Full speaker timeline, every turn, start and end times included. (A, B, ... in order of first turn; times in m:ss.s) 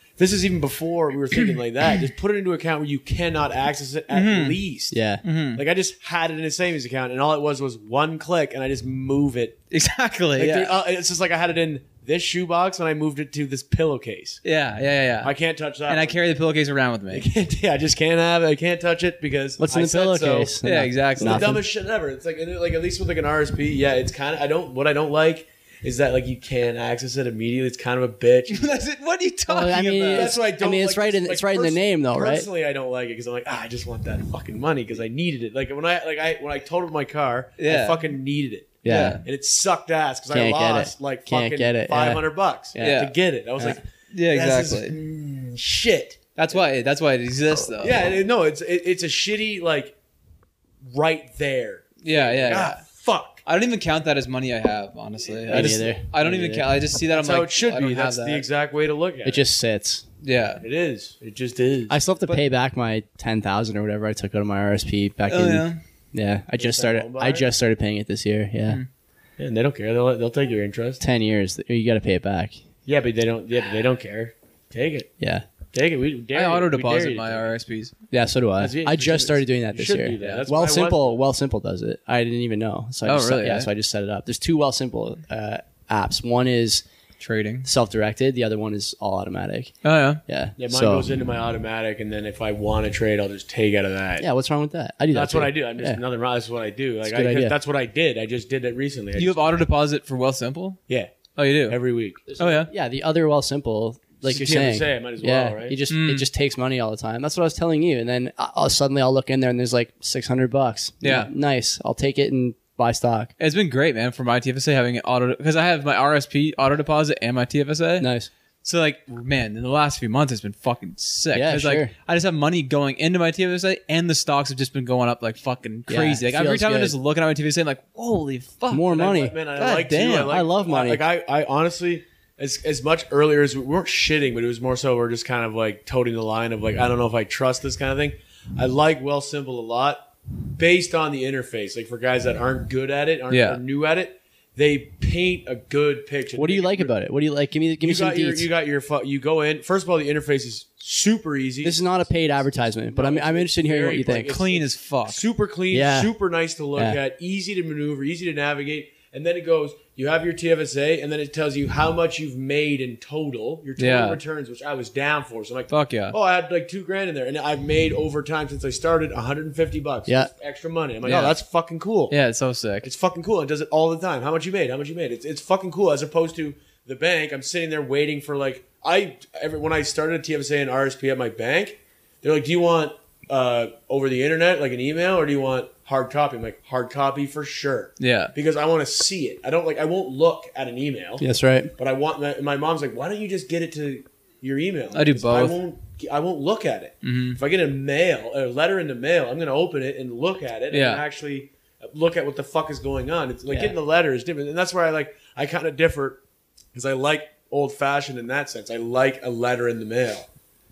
0:00.2-0:05.0 A
0:04.1-0:04.6 B
0:04.9-0:05.2 C
0:05.2-0:05.6 B
0:05.5-0:09.6 A
0:09.7-0:10.8 B
0:10.4-0:14.4 A
0:14.4-0:15.3 B
0:15.2-0:16.2 A
0:15.9-0:17.3 B
0:17.1-0:20.6 A
0:19.6-0:21.6 C
0:20.6-0:21.6 B
0:21.2-0:28.8 A
0:28.5-0:30.4 B
0:29.5-0:32.5 C
0:30.1-0:46.4 A
0:37.6-0:38.0 B
0:38.8-0:39.2 C
0:38.9-0:39.2 B
0:40.3-0:42.2 C
0:42.7-0:43.0 C
0:42.8-0:43.2 B
0:44.1-0:45.0 B
0:46.4-0:48.2 B
0:47.8-0:49.9 A
0:50.8-0:53.4 A
0:52.0-0:52.8 B
0:53.5-0:58.4 B
0:55.4-0:55.9 A
0:55.5-0:56.7 C
0:57.0-0:59.5 A
0:59.2-1:00.0 C
1:00.2-1:00.6 B
1:00.6-1:02.0 A
1:01.9-1:08.8 C
1:05.3-1:05.8 B
1:06.6-1:07.5 A
1:09.4-1:11.0 A
1:11.0-1:12.6 C
1:12.9-1:15.1 A
1:15.2-1:15.4 C
1:15.7-1:17.5 A
1:16.3-1:17.9 B
1:18.1-1:26.8 C
1:18.6-1:21.2 A
1:20.2-1:20.4 B
1:23.0-1:23.7 B
1:27.2-1:27.7 B
1:27.6-1:29.7 C
1:29.8-1:30.2 B
1:30.3-1:31.1 C
1:30.6-1:34.3 A
1:34.2-1:36.0 C
1:35.1-1:39.6 A
1:37.0-1:37.6 C
1:39.2-1:40.8 B
1:40.9-1:41.1 A
1:41.4-1:41.8 B
1:41.7-1:42.3 A
1:42.3-1:53.3 C
1:42.4-1:42.7 B
1:44.2-1:45.8 A
1:45.9-1:46.3 B
1:51.0-1:51.3 B
1:53.4-1:58.1 B
1:58.0-1:58.3 C
1:58.6-2:08.9 B
2:01.3-2:01.9 C
2:05.9-2:06.9 C
2:08.7-2:09.4 C
2:08.9-2:26.9 A
2:09.6-2:10.4 B
2:10.3-2:11.0 C
2:23.3-2:23.6 B
2:26.4-2:28.5 C
2:27.8-2:52.2 A
2:31.6-2:34.4 C
2:34.3-2:35.3 B
2:35.7-2:36.1 C
2:43.8-2:44.2 B
2:45.7-2:46.2 B
2:51.0-2:51.4 B
2:52.1-2:52.9 B
2:52.8-3:11.2 A
3:08.0-3:08.3 B
3:11.2-3:11.7 C
3:11.8-3:26.2 A
3:14.9-3:15.6 B
3:17.0-3:17.4 B
3:20.7-3:21.0 B
3:23.5-3:23.7 C
3:26.7-3:30.3 A